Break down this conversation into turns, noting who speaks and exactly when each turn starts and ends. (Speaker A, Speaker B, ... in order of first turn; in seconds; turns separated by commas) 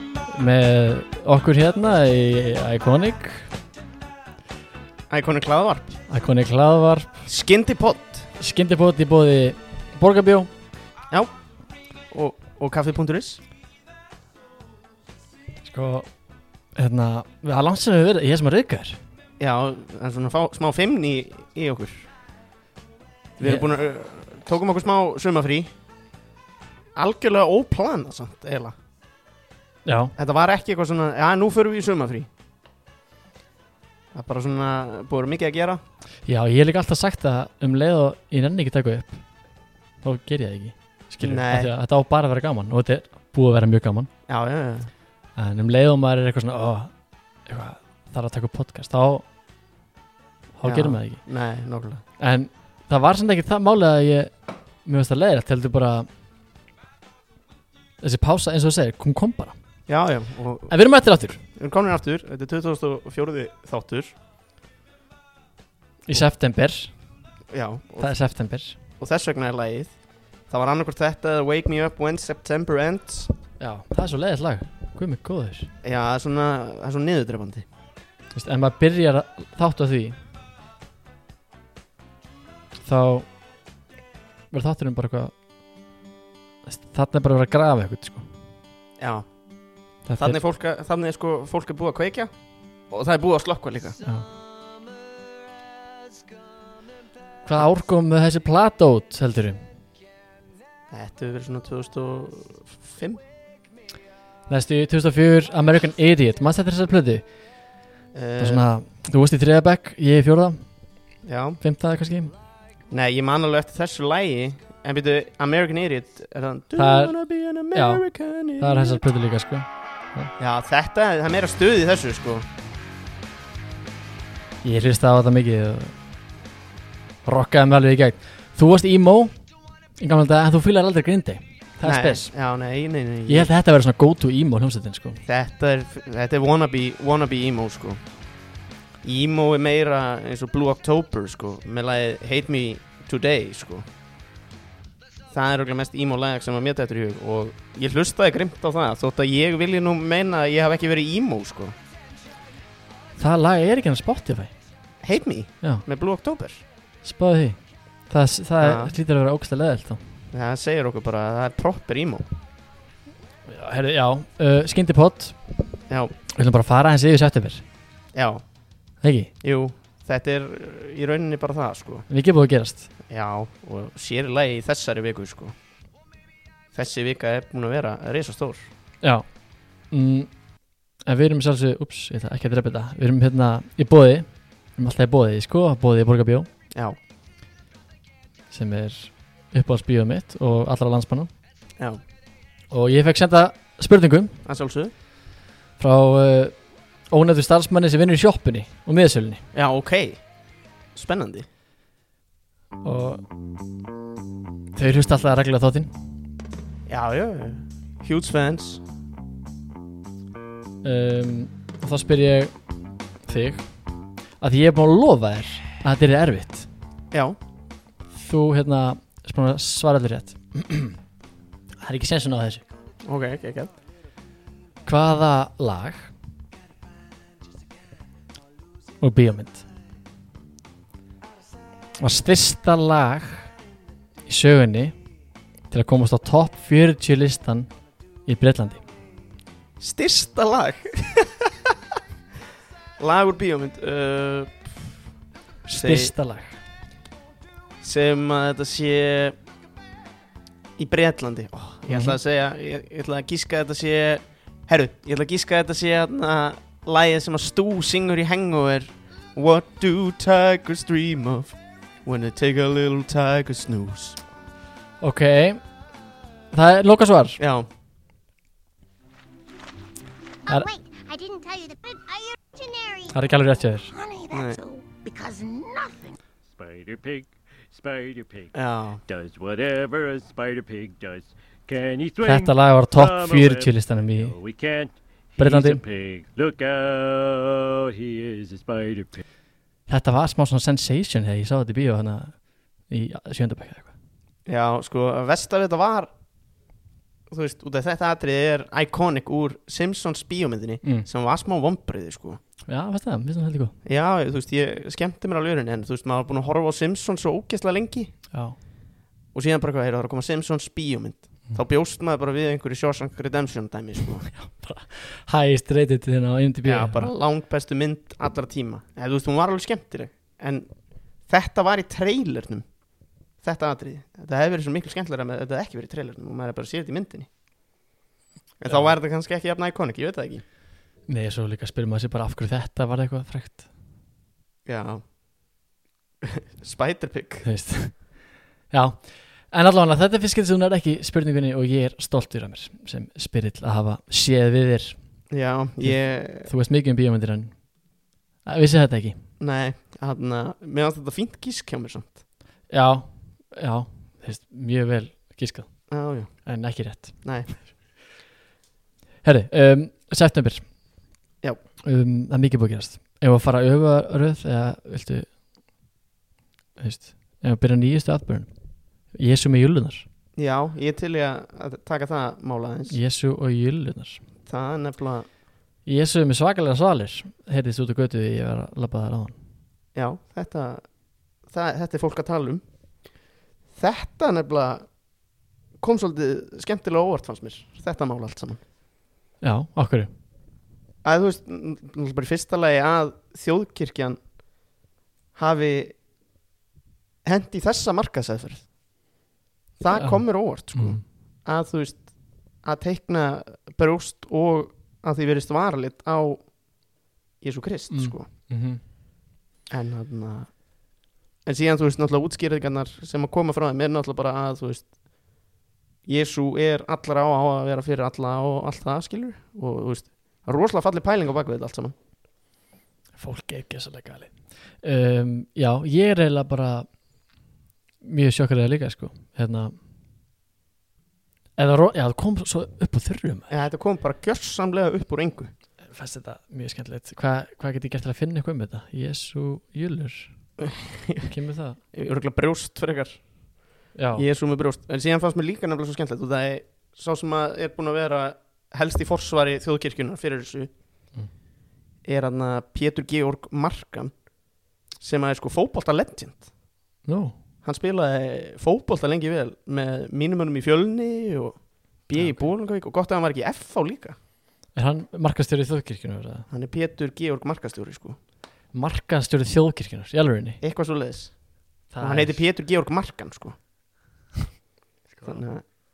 Speaker A: 0.3-3.5, Speaker B: 5.1-6.0, Speaker A: 6.1-7.1, Speaker B: 7.2-8.3, Speaker A: 8.4-10.5, Speaker B: 12.1-13.4, Speaker A: 15.7-16.1, Speaker A: 16.8-19.0, Speaker B: 19.4-22.1, Speaker B: 23.4-25.7, Speaker B: 26.9-28.8, Speaker A: 29.9-30.1, Speaker B: 30.2-32.3, Speaker B: 34.1-35.8, Speaker A: 36.3-39.2, Speaker A: 40.0-44.1, Speaker B: 41.2-41.7, Speaker B: 44.3-44.9, Speaker A: 45.4-46.9, Speaker A: 47.5-49.3, Speaker A: 50.6-51.2, Speaker B: 50.6-52.0, Speaker A: 52.2-56.1, Speaker A: 58.0-59.6, Speaker B: 59.9-60.7, Speaker A: 60.7-61.4, Speaker B: 61.6-64.2, Speaker A: 66.1-66.9, Speaker B: 67.5-68.2, Speaker A: 68.0-68.8, Speaker B: 69.0-70.0, Speaker B: 70.5-73.3, Speaker A: 73.6-75.7, Speaker B: 75.8-77.7, Speaker A: 78.3-80.2, Speaker A: 82.8-83.3, Speaker A: 84.5-85.4, Speaker A: 86.7-88.3, Speaker B: 89.0-89.3, Speaker A: 90.1-90.4, Speaker B: 90.2-92.3, Speaker B: 92.9-94.0, Speaker A: 97.5-99.6, Speaker B: 100.9-103.2, Speaker A: 104.5-107.3, Speaker B: 108.1-108.7, Speaker A: 108.4-110.7, Speaker B: 111.2-111.6, Speaker A: 111.6-112.3, Speaker B: 112.9-119.0, Speaker A: 116.8-117.2, Speaker A: 117.7-118.1, Speaker A: 118.6-120.3, Speaker B: 120.4-122.5, Speaker A: 124.6-126.0, Speaker A: 127.2-129.3, Speaker A: 130.0-132.3, Speaker B: 131.8-133.5, Speaker A: 133.3-135.2, Speaker B: 135.3-138.0, Speaker B: 139.0-143.8, Speaker B: 145.3-151.8, Speaker A: 153.2-154.5, Speaker B: 155.0-156.7, Speaker A: 157.0-160.0, Speaker B: 158.6-158.9, Speaker B: 160.3-162.3, Speaker A: 163.5-165.4, Speaker A: 166.3-167.7, Speaker B: 168.1-168.4, Speaker A: 169.0-169.3, Speaker B: 169.4-172.1, Speaker A: 172.1-172.9, Speaker B: 173.1-175.5, Speaker B: 176.7-178.7, Speaker A: 179.0-179.3, Speaker A: 179.9-180.3, Speaker A: 181.1-186.5, Speaker A: 188.5-191.3, Speaker A: 192.7-194.4, Speaker B: 194.4-194.9, Speaker A: 195.8-199.4, Speaker B: 199.5-200.2, Speaker B: 200.9-201.5, Speaker A: 202.8-203.2, Speaker A: 204.8-206.0, Speaker B: 206.9-208.8, Speaker A: 210.8-212.5, Speaker A: 213.3-213.7, Speaker A: 214.4-216.7, Speaker B: 217.1-217.4, Speaker A: 218.1-221.0, Speaker A: 221.8-222.6, Speaker B: 223.0-223.7, Speaker A: 224.8-226.1, Speaker A: 229.0-229.7, Speaker A: 232.0-233.5, Speaker A: 234.3-234.9, Speaker A: 235.7-237.7, Speaker A: 238.3-238.8, Speaker B: 239.8-241.7, Speaker B: 243.0-244.8, Speaker A: 245.7-246.6, Speaker B: 245.7-246.1, Speaker B: 247.8-249.4, Speaker B: 250.8-264.2, Speaker A: 251.9-252.2, Speaker A: 265.0-265.6, Speaker A: 266.5-267.4, Speaker B: 267.4-267.7, Speaker C: 270.5-273.2, Speaker A: 273.1-273.9, Speaker C: 273.9-276.2, Speaker B: 274.3-274.6, Speaker D: 276.5-278.6, Speaker B: 278.5-279.0, Speaker D: 279.1-289.2, Speaker A: 282.2-284.4, Speaker A: 285.4-285.8, Speaker B: 285.4-285.8, Speaker A: 289.9-293.9, Speaker B: 294.5-296.1, Speaker B: 297.3-302.4, Speaker A: 302.7-303.8, Speaker B: 303.9-308.1, Speaker A: 308.3-308.6, Speaker B: 309.3-314.3, Speaker A: 314.3-317.1, Speaker B: 316.6-322.7, Speaker B: 323.4-327.3, Speaker B: 328.6-330.4, Speaker A: 328.7-328.9, Speaker A: 331.1-333.7, Speaker B: 334.7-335.0, Speaker B: 336.2-337.5, Speaker A: 337.4-345.0, Speaker B: 345.3-346.5, Speaker A: 345.8-347.8, Speaker A: 348.4-349.2, Speaker B: 349.4-352.2, Speaker A: 352.7-357.4, Speaker B: 355.9-356.5, Speaker B: 357.2-357.6, Speaker A: 359.2-360.8, Speaker A: 361.8-365.3, Speaker A: 366.8-368.5, Speaker A: 369.1-370.1, Speaker B: 370.4-373.0, Speaker A: 372.9-374.2, Speaker B: 374.5-375.3, Speaker A: 375.9-379.4, Speaker B: 379.9-380.9, Speaker B: 381.4-382.6, Speaker B: 383.7-384.9, Speaker B: 385.8-388.6, Speaker A: 389.4-390.1, Speaker B: 391.0-394.2, Speaker B: 395.4-396.0, Speaker B: 397.2-398.7, Speaker B: 399.8-406.7, Speaker A: 399.9-401.0, Speaker B: 407.4-408.3, Speaker A: 407.9-408.8, Speaker B: 409.7-414.9, Speaker B: 416.1-421.9, Speaker A: 423.2-427.0, Speaker A: 428.0-429.8, Speaker A: 431.6-433.5, Speaker B: 433.5-435.5, Speaker A: 435.9-440.5, Speaker B: 440.6-441.3, Speaker A: 441.3-441.8, Speaker B: 441.9-443.2, Speaker A: 443.9-444.3, Speaker B: 444.2-450.7, Speaker B: 452.0-454.1, Speaker B: 455.0-456.5, Speaker A: 457.1-457.4, Speaker B: 457.6-464.2, Speaker A: 462.1-462.5, Speaker A: 464.7-466.5, Speaker B: 466.5-468.2, Speaker A: 468.7-470.6, Speaker B: 470.6-473.6, Speaker A: 471.9-472.4, Speaker B: 475.2-475.6